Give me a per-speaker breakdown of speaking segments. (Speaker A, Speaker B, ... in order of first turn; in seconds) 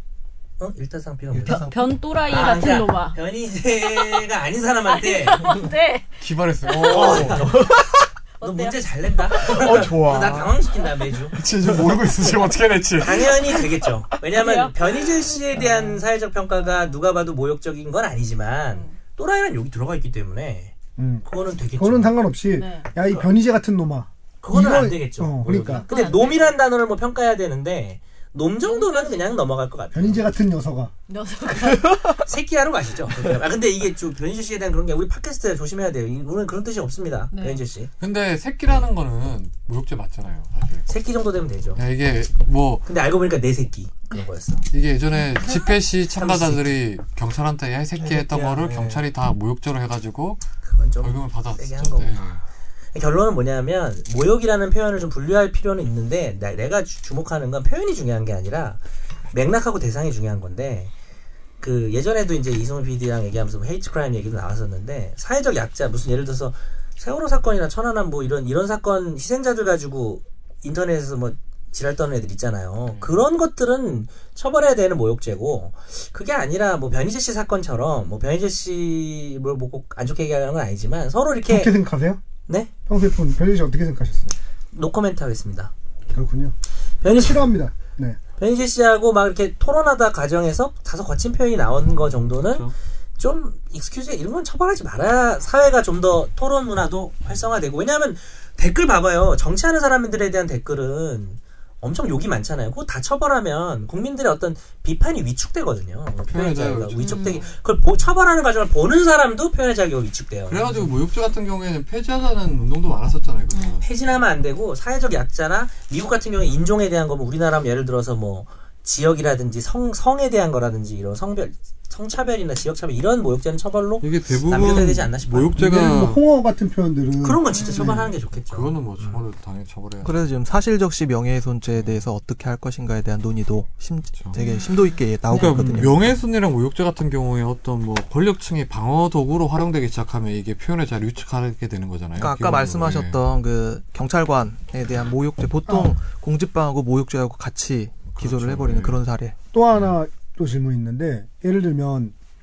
Speaker A: 0.6-1.7, 2.2-5.6, 6.7-7.8, 8.4-11.4, 13.0-22.2, 24.4-30.3, 32.2-37.9, 40.9-41.8, 42.9-44.7, 46.1-46.7, 50.6-52.4, 52.9-58.8, 59.3-60.9, 61.6-81.8, 82.5-82.7, 84.7-85.7, 87.0-87.5, 88.4-110.7, 113.8-125.6, 127.2-128.7
Speaker B: 1.3-2.0, 6.9-8.0, 9.4-10.6, 11.7-12.0, 48.0-49.0, 130.0-136.2, 142.2-149.3
Speaker C: 1.5-3.2, 3.8-4.3, 4.8-7.6, 8.4-9.5, 14.3-14.7, 22.5-22.9, 25.8-26.6, 28.6-29.4, 31.1-32.1, 37.3-37.6, 45.2-45.8, 107.0-107.5, 113.5-113.8, 127.5-128.0, 134.3-135.6
Speaker D: 6.2-7.6, 11.3-13.8, 38.0-40.9, 41.8-42.9, 44.7-50.4, 51.0-52.4, 72.9-73.2, 92.5-92.7, 106.2-107.5, 110.5-113.9, 124.0-126.2, 127.8-130.2, 131.7-132.1, 135.3-143.2, 148.1-149.0
Speaker E: 21.0-21.3, 21.8-25.9, 29.9-30.9, 81.5-82.2, 82.9-84.3, 86.1-86.5, 87.2-88.2, 125.6-127.4, 145.7-145.9, 149.5-152.1